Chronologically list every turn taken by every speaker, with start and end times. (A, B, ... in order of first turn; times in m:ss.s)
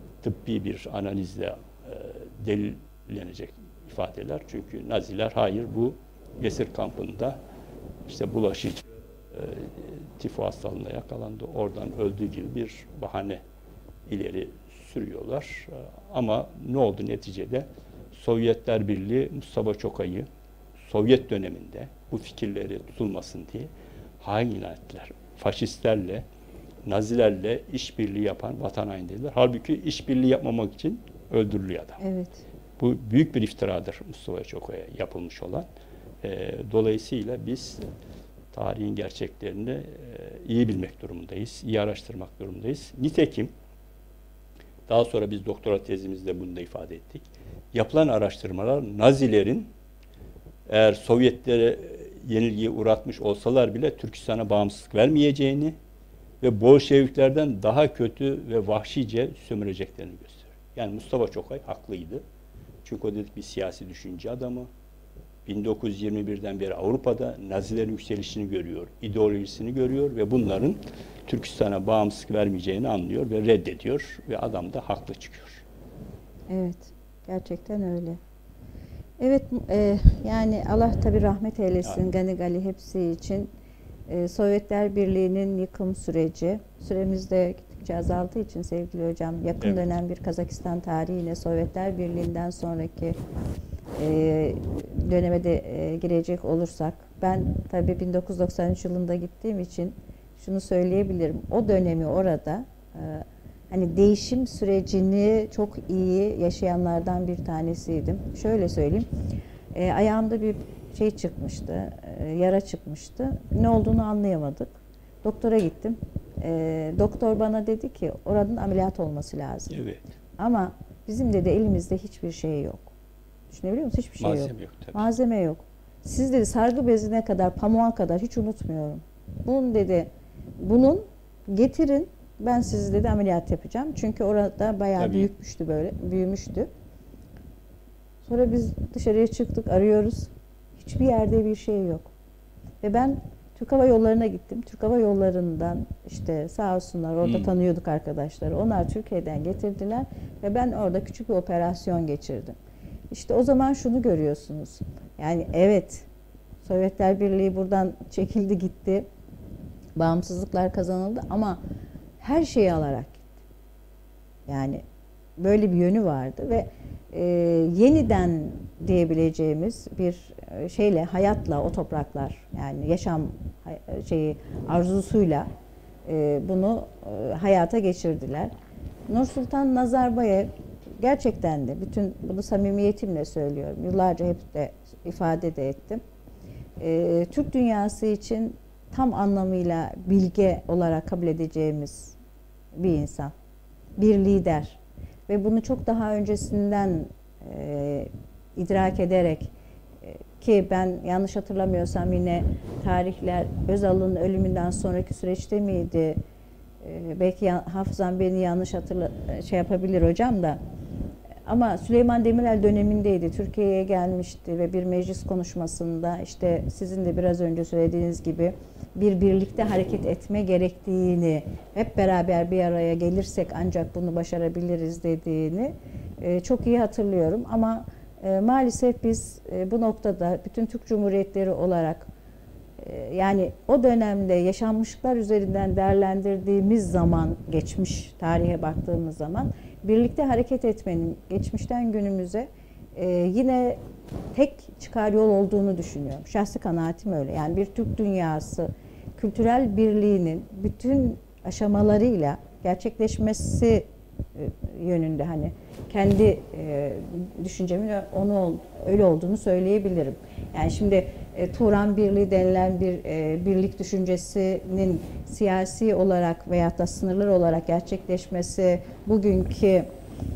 0:00.2-0:07.4 A
0:08.1-0:13.4 A
0:14.1-0:20.3 A
0:20.8-0:26.2 A
0:26.8-0:32.0 A
0:32.0-0:32.4 B
0:32.8-0:35.7 A
0:36.2-0:37.8 A
0:38.5-0:43.5 A
0:44.9-0:49.7 A
0:50.7-0:55.8 A
0:56.4-1:02.2 A
1:02.8-1:04.7 A
1:05.5-1:15.6 A
1:16.5-1:18.2 B
1:19.2-1:23.5 B
1:24.1-1:33.2 B
1:29.6-1:29.9 A
1:34.0-1:49.1 B
1:49.7-1:59.8 B
1:59.7-2:00.0 A
2:00.4-2:02.9 B
2:03.5-2:10.1 B
2:04.2-2:05.1 A
2:10.6-2:16.7 B
2:15.0-2:15.3 A
2:18.2-2:22.1 B
2:22.8-2:32.6 B
2:27.2-2:27.5 A
2:33.1-2:36.1 B
2:36.6-2:39.1 B
2:40.0-2:41.6 B
2:42.2-2:43.3 B
2:44.5-2:44.8 B
2:45.4-2:55.5 B
2:56.1-2:58.5 B
2:59.1-3:06.0 B
3:06.8-3:12.2 B
3:12.8-3:13.3 B
3:14.0-3:19.5 B
3:20.0-3:26.2 B
3:26.8-3:30.6 B
3:31.5-3:52.1 B
3:52.8-4:03.8 B
4:04.3-4:29.9 B